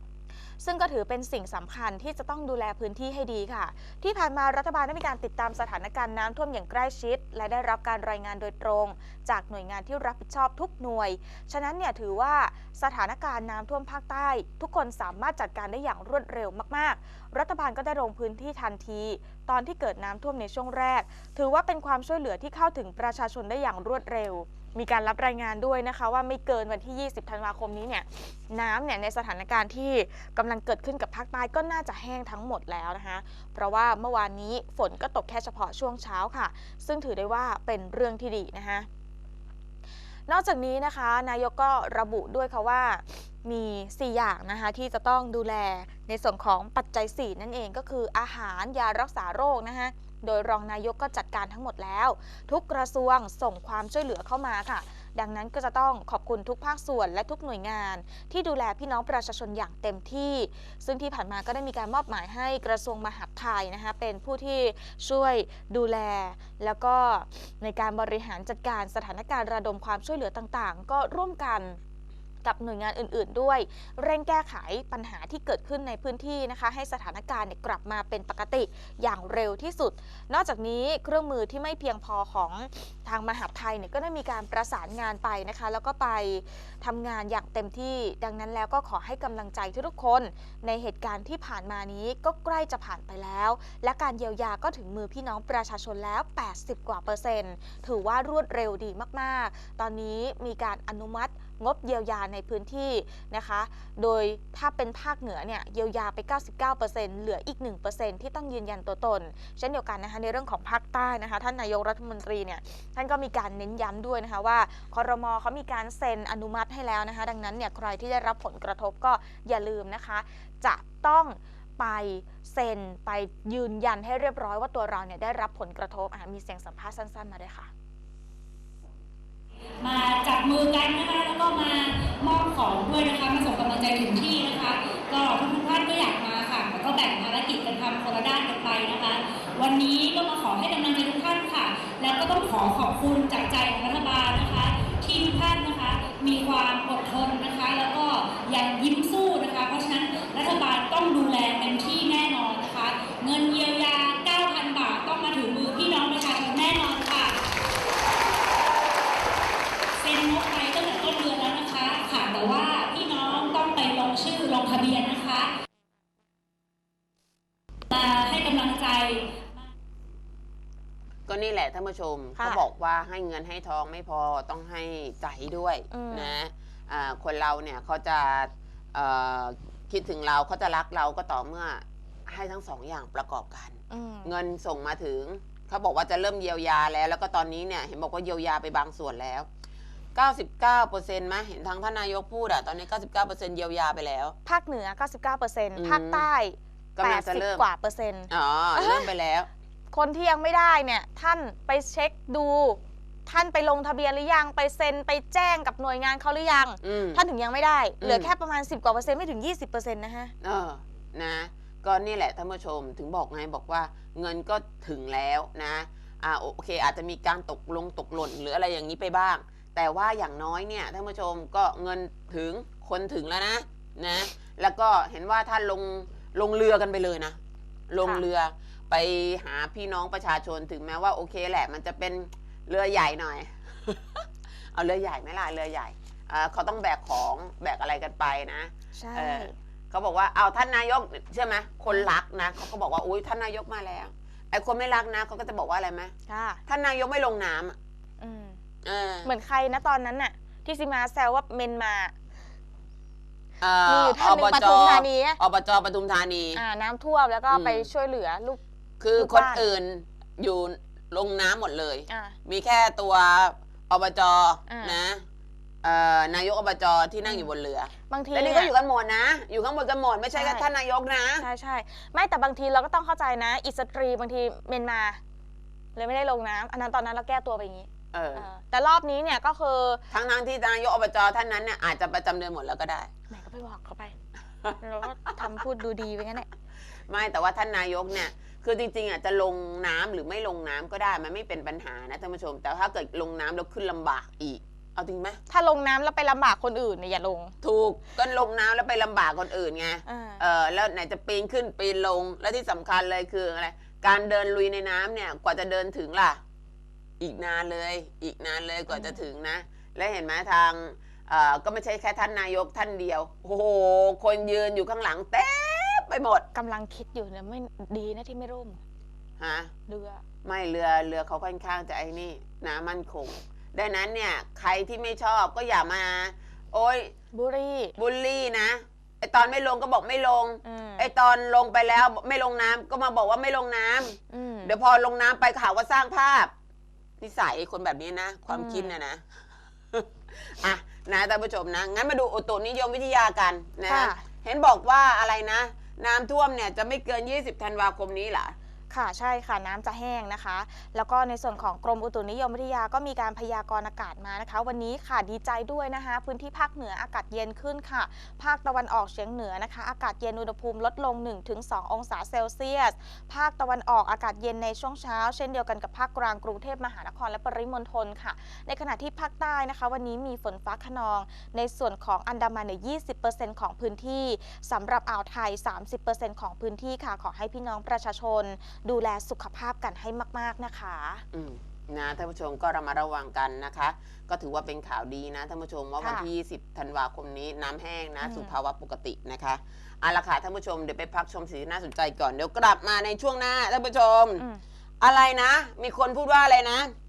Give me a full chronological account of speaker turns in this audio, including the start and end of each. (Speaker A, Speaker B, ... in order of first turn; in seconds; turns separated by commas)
Speaker A: 0.6-38.9, Speaker A: 40.3-71.8, Speaker A: 72.4-127.7, Speaker B: 129.8-157.4, Speaker B: 160.0-165.5, Speaker B: 167.9-169.4, Speaker C: 171.3-189.5, Speaker A: 172.4-172.6, Speaker A: 175.9-176.4, Speaker A: 183.9-184.3, Speaker C: 190.1-194.3, Speaker A: 194.4-199.1, Speaker C: 195.8-196.3, Speaker C: 196.9-197.6, Speaker C: 198.3-199.5, Speaker A: 199.9-210.3, Speaker C: 206.8-207.2, Speaker C: 208.0-208.3, Speaker C: 210.4-227.4, Speaker C: 227.9-246.1, Speaker A: 238.9-239.5, Speaker A: 246.3-246.6, Speaker C: 246.7-247.8, Speaker A: 248.2-248.6, Speaker C: 248.8-249.3, Speaker A: 249.2-252.1, Speaker C: 253.6-256.6, Speaker A: 253.8-255.4, Speaker A: 256.5-258.6, Speaker C: 257.5-257.9, Speaker C: 259.0-265.2, Speaker A: 259.1-259.6, Speaker A: 262.1-262.4, Speaker A: 264.7-265.0, Speaker C: 265.8-271.4, Speaker A: 268.1-268.7, Speaker A: 270.3-270.7, Speaker A: 271.4-275.2, Speaker A: 275.9-280.0, Speaker C: 278.1-278.4, Speaker C: 280.1-283.1, Speaker A: 283.3-284.1, Speaker A: 284.8-286.5, Speaker C: 287.1-295.4, Speaker A: 295.5-297.5, Speaker C: 297.6-306.4, Speaker A: 300.1-300.4, Speaker C: 307.2-316.4, Speaker A: 308.9-309.2, Speaker A: 316.5-318.8, Speaker C: 319.4-319.7, Speaker A: 319.9-320.2, Speaker C: 320.4-327.1, Speaker A: 327.3-327.9, Speaker C: 328.0-336.5, Speaker A: 330.6-331.1, Speaker A: 334.3-334.7, Speaker C: 337.2-339.2, Speaker A: 338.5-338.9, Speaker C: 339.9-348.5, Speaker A: 343.9-344.2, Speaker A: 348.9-381.2, Speaker C: 381.3-394.4, Speaker A: 386.0-386.3, Speaker A: 388.2-388.5, Speaker C: 395.0-396.9